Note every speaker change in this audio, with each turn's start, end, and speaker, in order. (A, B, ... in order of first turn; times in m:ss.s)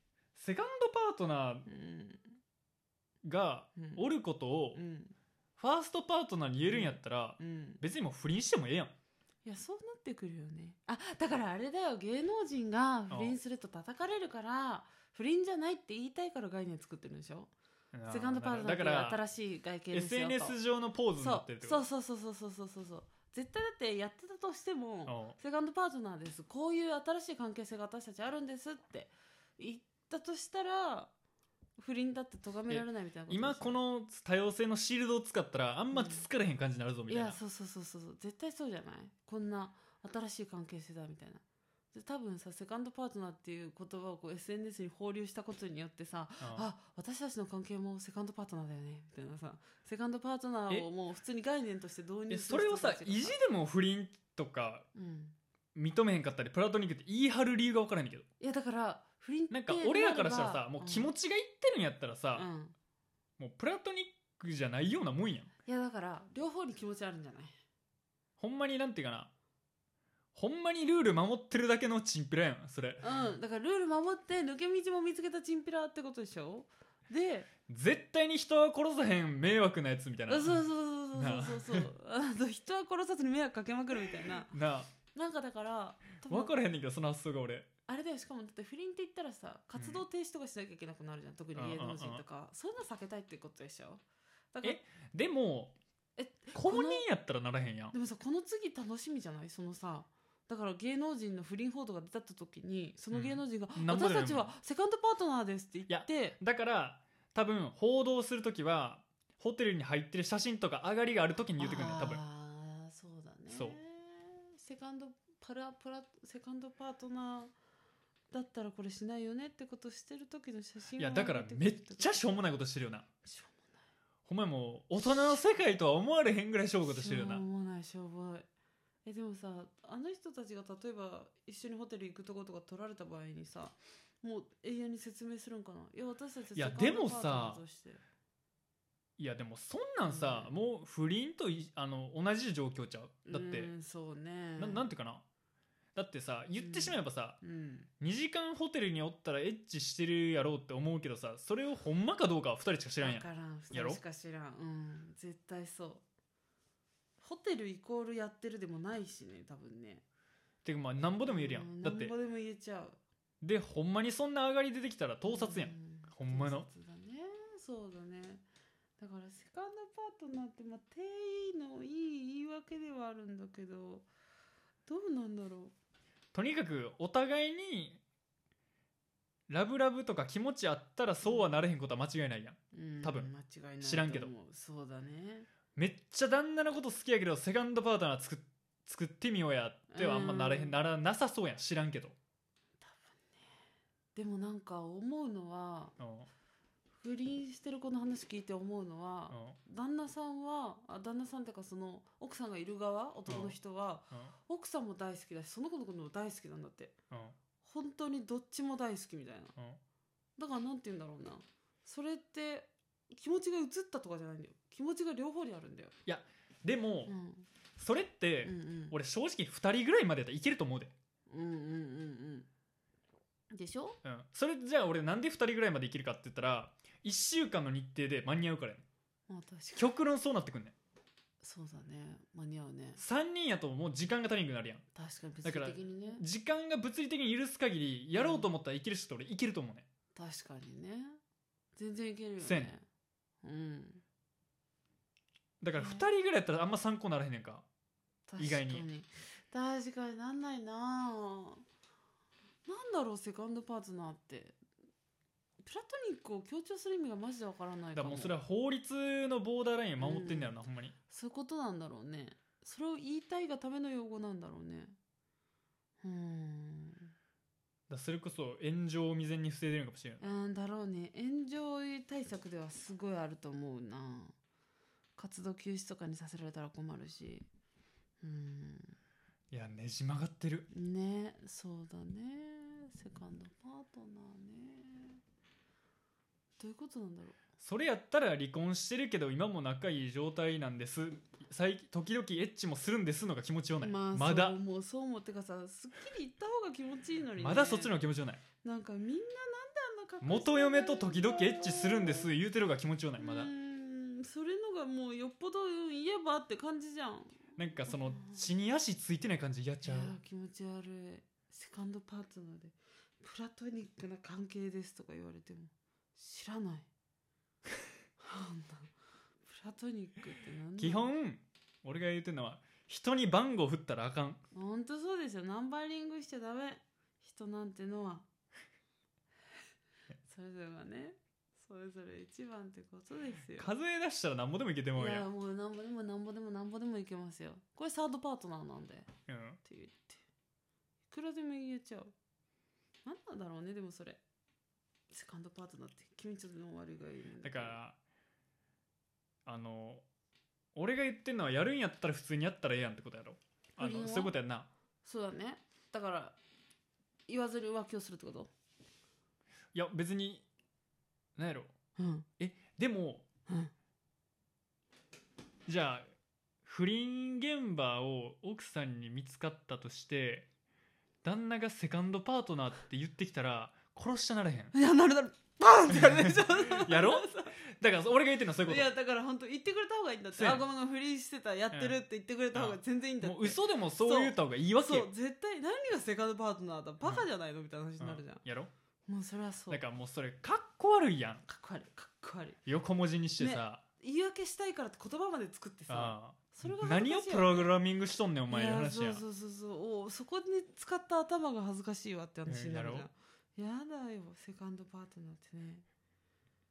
0:00.4-0:01.7 A
0:01.7-0:02.4 B
0:03.2-0:04.8 A
0:03.8-0:04.0 B
0:04.8-0:05.2 B
0:05.6-0:08.9 A
0:06.7-0:07.8 B
0:09.4-0:17.5 B
0:13.1-0:13.4 A
0:17.9-0:19.2 A
0:18.1-0:20.6 B
0:19.9-0:21.8 A
0:21.2-0:31.1 B
0:25.1-0:25.4 A
0:31.8-0:33.8 B
0:32.7-0:37.4 A
0:35.9-0:36.3 B
0:37.1-0:53.4 B
0:46.4-0:46.7 A
0:52.3-0:54.9 A
0:54.9-0:55.4 B
0:55.8-0:58.3 A
0:58.4-1:01.1 B
0:59.5-1:02.5 A
1:02.3-1:02.8 B
1:03.4-1:05.5 A
1:05.6-1:07.6 B
1:08.4-1:09.3 A
1:10.4-1:13.2 A
1:13.0-1:17.5 B
1:17.7-1:21.9 A
1:20.3-1:24.6 B
1:24.5-1:24.9 A
1:25.1-1:26.6 B
1:26.3-1:27.7 A
1:27.9-1:34.8 B
1:29.8-1:30.0 A
1:31.6-1:32.2 A
1:34.6-1:35.8 A
1:36.2-1:37.0 B
1:36.5-1:38.0 A
1:37.9-1:46.4 B
1:43.1-1:44.5 A
1:45.9-1:52.2 A
1:51.6-1:57.5 B
1:53.5-1:53.8 A
1:58.3-2:02.4 B
2:01.0-2:03.1 A
2:03.2-2:03.8 B
2:04.3-2:07.4 A
2:06.9-2:08.5 B
2:09.0-2:18.0 B
2:16.6-2:17.6 A
2:19.2-2:23.7 A
2:20.1-2:20.6 B
2:23.3-2:24.9 B
2:24.6-2:25.2 A
2:26.0-2:27.4 A
2:26.6-2:27.9 B
2:28.0-2:34.0 A
2:33.0-2:36.0 B
2:37.2-2:40.0 B
2:40.6-2:42.1 A
2:41.2-2:43.0 B
2:43.4-2:46.7 A
2:45.3-2:48.4 B
2:49.0-2:54.1 B
2:54.9-2:55.7 B
2:56.3-2:58.0 A
2:59.5-3:03.3 A
3:01.2-3:01.5 B
3:02.7-3:05.5 B
3:03.8-3:04.3 A
3:05.8-3:12.2 A
3:09.9-3:10.8 B
3:12.8-3:13.5 B
3:14.2-3:16.0 B
3:16.0-3:16.3 A
3:17.0-3:27.0 B
3:19.3-3:19.6 A
3:23.3-3:23.6 A
3:27.1-3:27.4 A
3:27.6-3:29.6 B
3:30.4-3:36.0 B
3:36.1-3:37.1 A
3:37.1-3:37.5 B
3:37.8-3:40.9 A
3:38.4-3:39.0 B
3:41.3-3:42.5 B
3:43.5-3:44.0 B
3:44.0-3:48.8 A
3:49.3-3:49.9 B
3:49.8-3:50.8 A
3:51.4-3:53.0 B
3:53.0-3:54.8 A
3:54.9-3:56.2 B
3:55.4-3:59.9 A
3:58.1-3:58.5 B
4:00.2-4:01.2 B
4:01.8-4:02.8 B
4:02.4-4:02.7 A
4:03.4-4:04.0 B
4:05.6-4:07.6 A
4:05.7-4:06.1 B
4:08.3-4:11.6 B
4:08.4-4:08.8 A
4:12.6-4:14.6 B
4:15.6-4:18.4 B
4:18.0-4:20.9 A
4:20.0-4:20.6 B
4:21.1-4:25.0 B
4:26.0-4:27.1 B
4:27.9-4:30.3 A
4:30.2-4:34.4 B
4:35.2-4:37.5 B
4:38.2-4:39.0 B
4:39.5-4:40.7 A
4:40.7-4:45.2 B
4:46.6-4:47.4 B
4:47.6-4:54.6 A
4:53.8-4:58.0 B
4:57.4-4:58.4 A
4:58.6-5:02.3 B
5:00.2-5:03.5 A
5:03.2-5:08.5 B
5:07.6-5:10.2 A
5:09.8-5:16.9 B
5:18.2-5:18.9 B
5:19.4-5:21.1 B
5:20.8-5:24.4 A
5:24.5-5:28.3 B
5:30.2-5:33.7 B
5:33.6-5:35.3 A
5:35.0-5:39.1 B
5:39.3-5:39.6 A
5:39.6-5:40.2 B
5:41.1-5:42.1 B
5:43.0-5:44.2 B
5:45.1-5:47.8 B
5:47.4-5:48.0 A
5:49.5-5:50.0 A
5:50.8-5:54.7 A
5:53.8-5:54.4 B
5:55.0-5:56.4 B
5:57.3-5:58.5 B
5:59.7-6:00.4 A
6:01.4-6:01.7 A
6:02.0-6:02.3 B
6:02.4-6:03.2 A
6:03.5-6:03.7 B
6:05.7-6:06.1 A
6:06.6-6:10.5 A
6:11.2-6:14.7 A
6:14.7-6:17.6 B
6:15.9-6:18.9 A
6:18.6-6:28.4 B
6:20.3-6:20.7 A
6:21.7-6:22.0 A
6:22.5-6:25.1 A
6:28.0-6:28.7 A
6:29.1-6:29.8 B
6:29.7-6:31.4 A
6:31.5-6:32.6 B
6:32.7-6:33.8 A
6:33.4-6:37.7 B
6:35.9-6:39.2 A
6:38.5-6:45.8 B
6:42.5-6:43.1 A